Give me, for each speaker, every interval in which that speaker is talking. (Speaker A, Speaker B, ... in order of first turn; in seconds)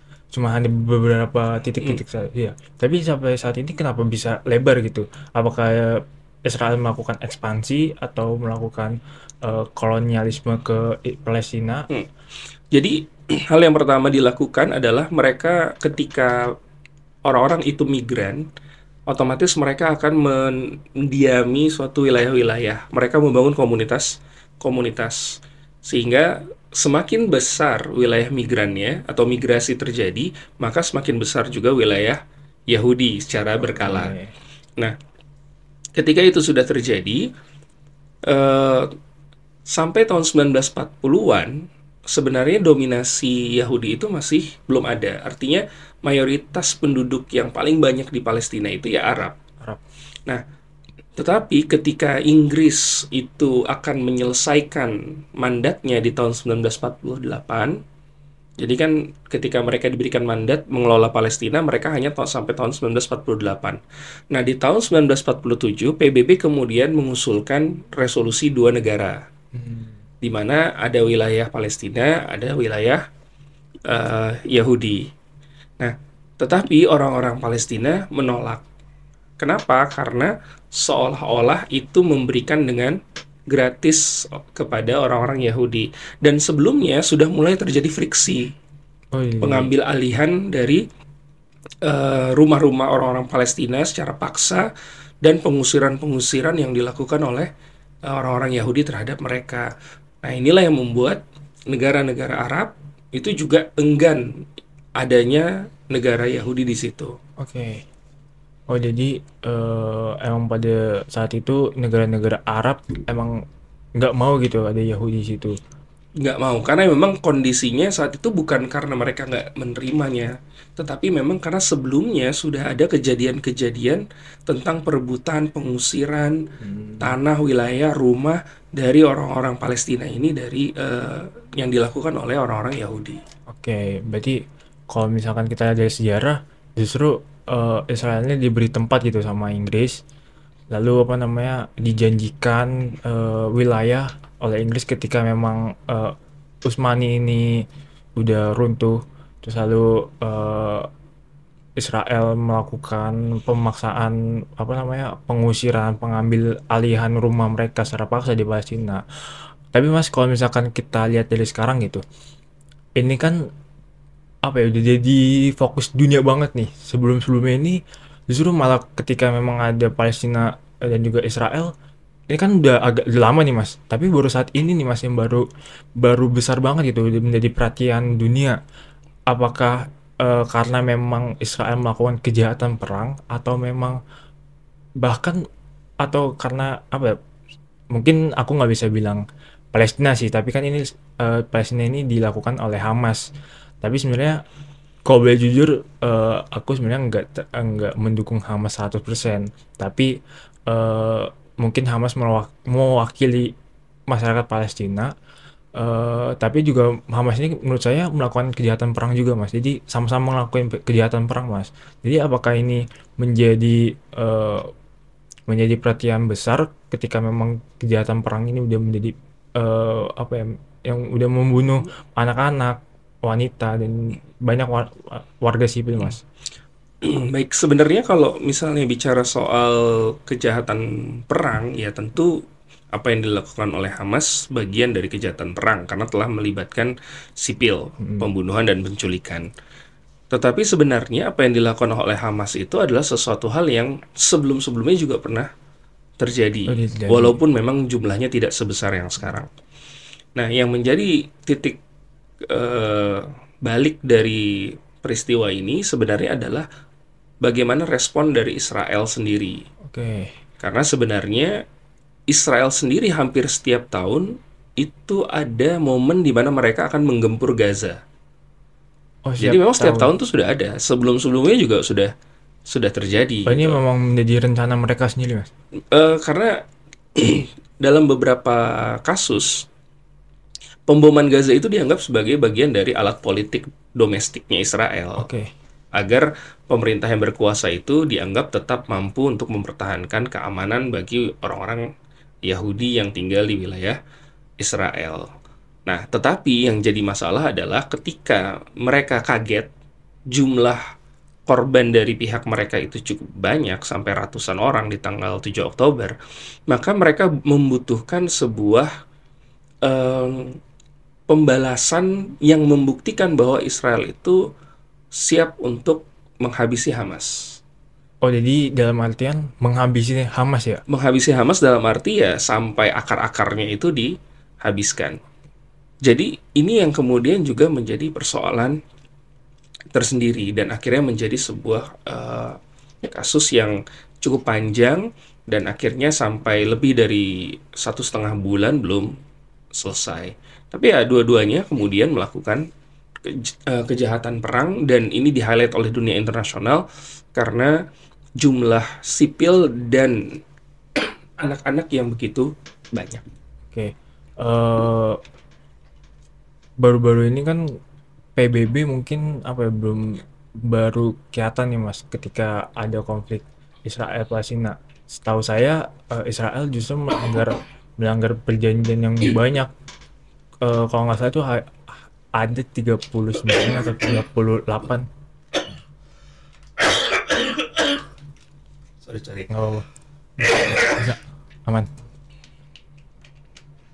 Speaker A: 0.3-11.9, 33.6-34.3, 69.5-70.0, 89.1-89.7, 107.4-107.8, 108.7-113.4, 114.0-115.6, 126.6-127.1, 133.5-140.0, 140.7-147.6, 148.2-150.9, 151.8-159.0, 159.7-162.0, 163.0-163.5, 164.4-171.7, 172.3-175.4, 176.0-178.6, 179.3-184.0, 185.0-185.4, 186.0-187.2, 187.9-189.2, 189.7-193.3, 193.8-194.4, 195.1-200.1, 200.7-203.5, 204.1-205.1, 205.8-214.7, 215.5-226.2, 238.0-238.3, 246.7-247.4, 259.9-260.3, 269.2-270.1, 273.4-275.5, 285.2-285.5, 318.2-320.8, 353.7-355.2, 356.8-357.7, 358.4-369.7, 370.6-375.1, 379.5-379.9, 380.4-381.9
Speaker B: 12.7-16.4, 17.2-18.4, 19.1-34.1, 36.0-37.2, 38.3-38.9, 39.7-49.4, 51.2-57.8, 58.6-63.8, 64.3-69.2, 70.2-73.0, 73.9-75.1, 75.8-78.6, 79.4-83.0, 83.5-88.5, 89.4-90.8, 91.8-94.7, 95.2-97.5, 98.1-99.7, 100.2-104.2, 105.0-107.1, 116.2-126.4, 127.0-133.2, 227.0-232.4, 232.9-239.5, 240.3-245.5, 246.2-249.5, 250.3-251.8, 252.5-256.6, 257.4-259.6, 260.6-261.6, 262.3-268.0, 269.4-272.1, 272.7-273.8, 275.9-276.6, 277.1-279.6, 280.9-285.3, 285.9-291.8, 292.4-294.0, 294.6-295.3, 295.9-299.7, 300.3-300.8, 301.5-306.1, 306.7-308.9, 309.8-310.6, 311.3-314.4, 315.1-317.6, 320.9-325.2, 326.0-328.8, 329.9-339.1, 339.8-342.6, 343.2-346.8, 347.3-347.7, 348.4-350.4, 351.4-353.2, 377.1-377.6, 379.0-379.5